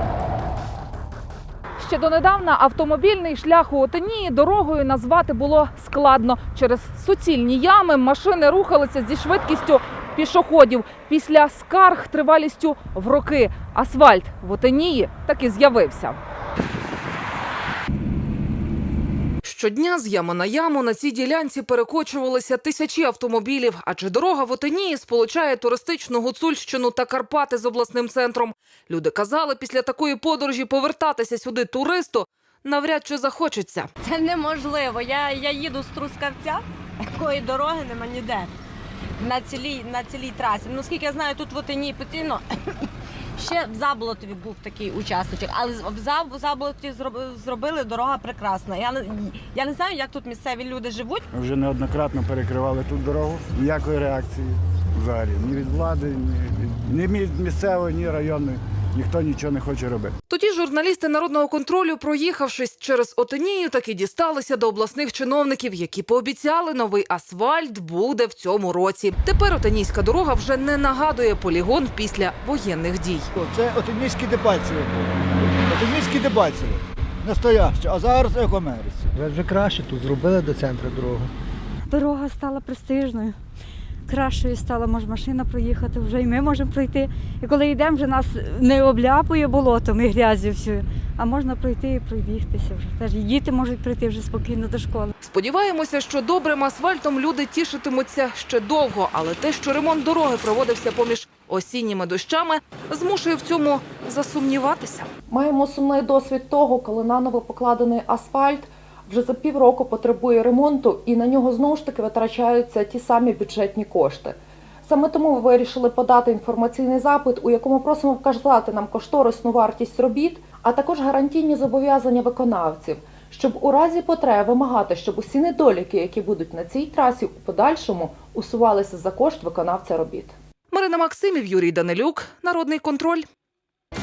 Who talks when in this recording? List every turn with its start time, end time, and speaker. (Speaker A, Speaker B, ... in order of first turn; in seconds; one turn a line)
Speaker A: 1.8-16.2
Speaker A: 19.4-33.9
Speaker B: 34.0-38.5
Speaker B: 39.2-42.4
Speaker B: 43.4-51.2
Speaker C: 51.3-60.1
Speaker A: 60.3-73.3
Speaker D: 73.3-79.0
Speaker E: 79.1-81.3
Speaker F: 81.9-83.3
Speaker F: 84.1-95.1
Speaker A: 95.2-105.1
Speaker G: 105.3-130.3
Speaker A: 130.7-133.2